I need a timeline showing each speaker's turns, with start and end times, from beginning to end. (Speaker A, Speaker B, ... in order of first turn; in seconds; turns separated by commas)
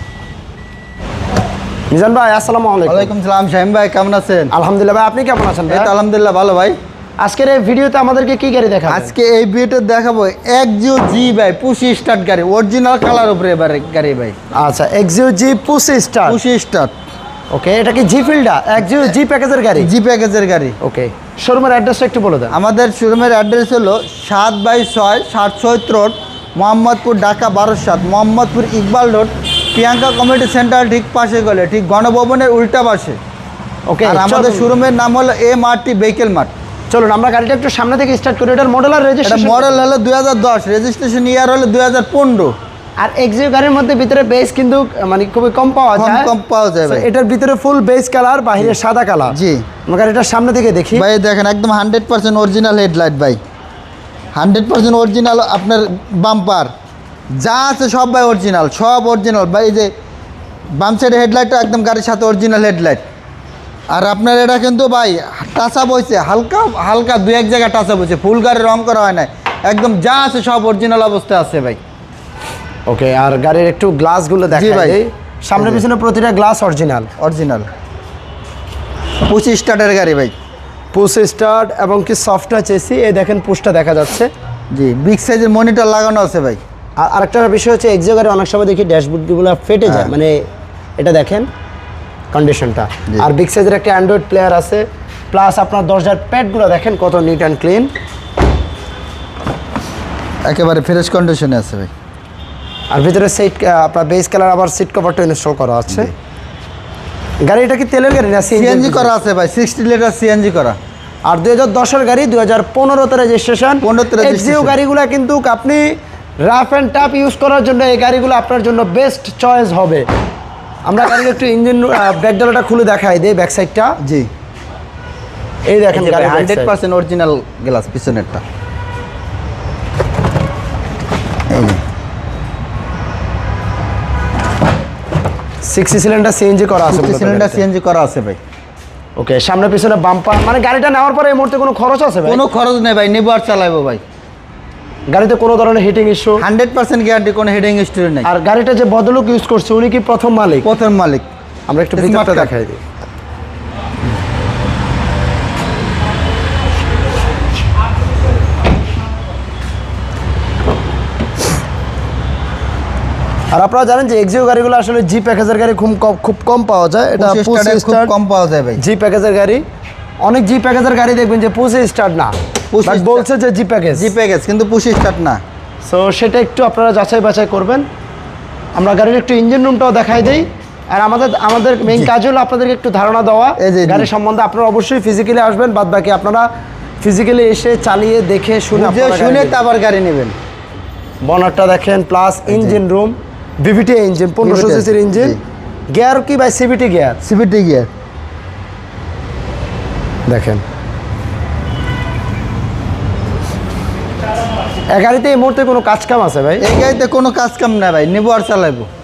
Speaker A: 1.9-3.1, Speaker B: 2.9-4.5, Speaker A: 4.5-5.9, Speaker B: 5.7-6.8, Speaker A: 7.2-9.1, Speaker B: 8.9-14.3, Speaker A: 14.5-16.4, Speaker B: 16.2-16.9, Speaker A: 17.5-19.9, Speaker B: 19.8-20.8, Speaker A: 20.8-22.5, Speaker B: 22.5-33.2, Speaker A: 33.9-34.7, Speaker B: 34.0-36.5, Speaker A: 36.9-39.9, Speaker B: 39.2-42.5, Speaker A: 43.0-46.3, Speaker B: 46.0-47.1, Speaker A: 46.8-51.1, Speaker B: 49.3-49.6, Speaker B: 50.9-53.4, Speaker B: 54.4-56.7, Speaker B: 57.3-59.9, Speaker B: 60.7-63.0, Speaker B: 63.9-71.8, Speaker A: 72.9-77.1, Speaker B: 74.5-75.0, Speaker B: 75.6-75.8, Speaker B: 77.2-77.7, Speaker B: 79.2-80.3, Speaker A: 80.9-84.3, Speaker B: 84.7-86.6, Speaker A: 87.0-90.4, Speaker B: 89.8-90.1, Speaker A: 91.0-91.5, Speaker A: 92.3-97.9, Speaker B: 100.5-101.9, Speaker A: 102.9-106.1, Speaker A: 107.4-109.2, Speaker B: 108.5-110.8, Speaker A: 111.2-115.9, Speaker B: 113.8-114.8, Speaker A: 116.4-120.0, Speaker A: 120.9-124.0, Speaker B: 124.0-124.3, Speaker A: 125.7-126.7, Speaker B: 125.9-128.4, Speaker B: 131.5-131.8, Speaker A: 135.6-137.6, Speaker B: 136.9-138.4, Speaker A: 139.2-142.4, Speaker B: 142.2-144.0, Speaker A: 145.1-146.4, Speaker B: 146.4-148.3, Speaker A: 148.2-150.7, Speaker B: 150.6-151.2, Speaker A: 151.7-152.8, Speaker B: 151.9-152.5, Speaker A: 163.5-168.1, Speaker B: 167.2-168.8, Speaker A: 168.8-169.6, Speaker A: 170.2-172.3, Speaker B: 172.7-173.2, Speaker A: 172.8-174.1, Speaker B: 173.9-175.4, Speaker A: 175.8-177.8, Speaker A: 178.8-186.5, Speaker B: 183.6-184.1, Speaker A: 187.0-189.6, Speaker B: 188.7-190.3, Speaker A: 191.2-195.4, Speaker B: 192.5-192.8, Speaker B: 194.4-195.4, Speaker A: 195.9-197.2, Speaker B: 197.2-197.9, Speaker A: 200.3-200.6, Speaker A: 204.9-206.6, Speaker B: 206.6-208.9